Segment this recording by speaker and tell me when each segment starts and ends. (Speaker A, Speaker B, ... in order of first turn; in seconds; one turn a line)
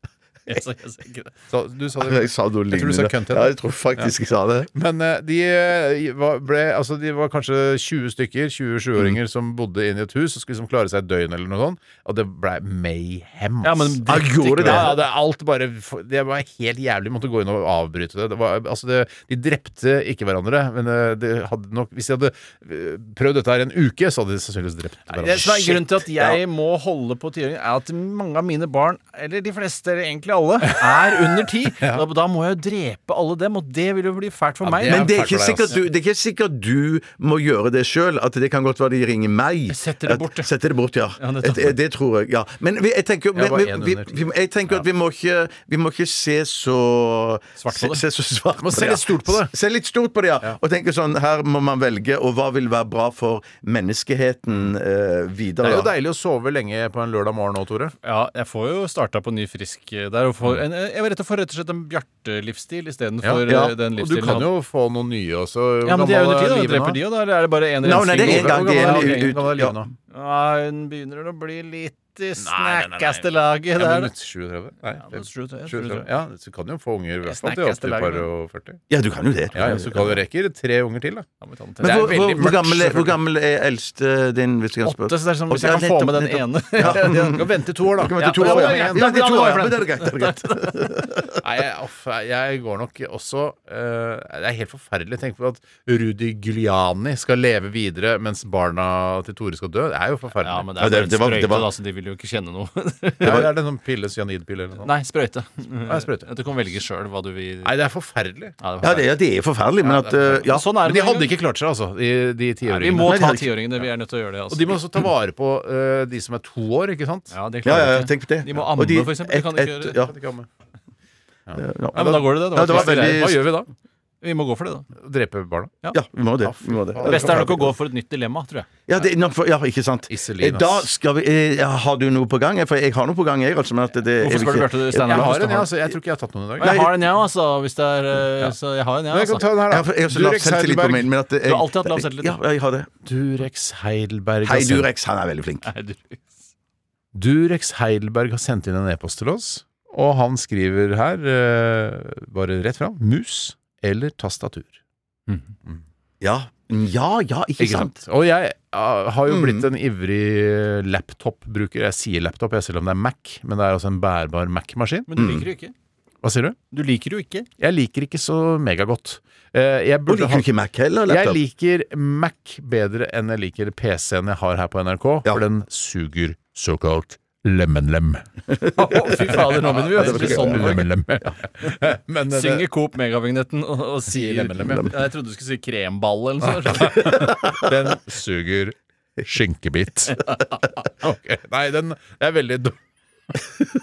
Speaker A: 0.5-1.3
Speaker B: 1.5-4.1
Speaker C: 2.0-4.7
Speaker B: 4.7-25.8
Speaker A: 13.6-14.9
Speaker C: 14.1-15.0
Speaker A: 25.1-35.1
Speaker C: 25.3-26.4
Speaker B: 34.6-35.8
Speaker C: 34.8-55.9
Speaker A: 39.7-40.5
Speaker A: 41.2-41.8
Speaker B: 43.3-44.9
Speaker A: 47.6-48.0
Speaker B: 48.6-49.5
Speaker B: 55.6-57.9
Speaker A: 58.0-64.5
Speaker B: 63.2-67.0
Speaker A: 65.8-69.4
Speaker C: 67.8-69.8
Speaker B: 68.0-69.9
Speaker A: 70.1-74.1
Speaker B: 72.4-78.8
Speaker A: 75.0-76.1
Speaker A: 77.2-78.3
Speaker C: 78.9-80.2
Speaker B: 79.5-81.3
Speaker A: 81.4-82.2
Speaker B: 81.8-83.2
Speaker C: 81.8-91.4
Speaker A: 84.8-87.4
Speaker B: 86.8-89.1
Speaker A: 88.2-90.9
Speaker B: 91.4-100.7
Speaker A: 100.4-103.5
Speaker C: 100.8-101.7
Speaker B: 103.2-104.9
Speaker A: 104.8-107.7
Speaker B: 105.9-106.3
Speaker B: 107.6-108.5
Speaker A: 108.6-109.1
Speaker C: 108.8-110.7
Speaker A: 109.8-111.3
Speaker B: 110.8-113.3
Speaker A: 112.7-114.8
Speaker C: 113.0-113.5
Speaker B: 114.5-117.3
Speaker A: 117.3-120.0
Speaker C: 117.7-120.1
Speaker B: 119.9-120.5
Speaker C: 121.6-123.5
Speaker A: 121.9-123.7
Speaker B: 122.6-123.3
Speaker A: 124.2-124.9
Speaker B: 125.0-125.7
Speaker C: 125.9-127.7
Speaker B: 126.4-127.5
Speaker A: 127.1-128.8
Speaker C: 128.9-135.4
Speaker B: 130.1-130.9
Speaker A: 134.2-135.7
Speaker B: 135.1-136.9
Speaker A: 136.6-139.5
Speaker C: 136.6-137.0
Speaker B: 139.1-141.1
Speaker C: 139.7-142.9
Speaker A: 141.4-142.4
Speaker B: 143.1-144.9
Speaker C: 144.4-145.7
Speaker A: 145.7-146.3
Speaker B: 147.1-154.8
Speaker C: 156.2-158.0
Speaker B: 157.6-165.1
Speaker C: 159.3-159.7
Speaker A: 165.1-165.7
Speaker C: 165.2-165.5
Speaker B: 166.2-166.6
Speaker A: 166.7-167.5
Speaker B: 167.6-170.5
Speaker C: 170.1-171.4
Speaker B: 171.1-178.3
Speaker C: 178.6-180.8
Speaker A: 178.7-180.9
Speaker B: 179.3-182.7
Speaker A: 182.3-187.5
Speaker B: 184.1-184.9
Speaker C: 184.6-184.9
Speaker B: 186.4-190.2
Speaker A: 190.2-190.6
Speaker B: 190.9-192.8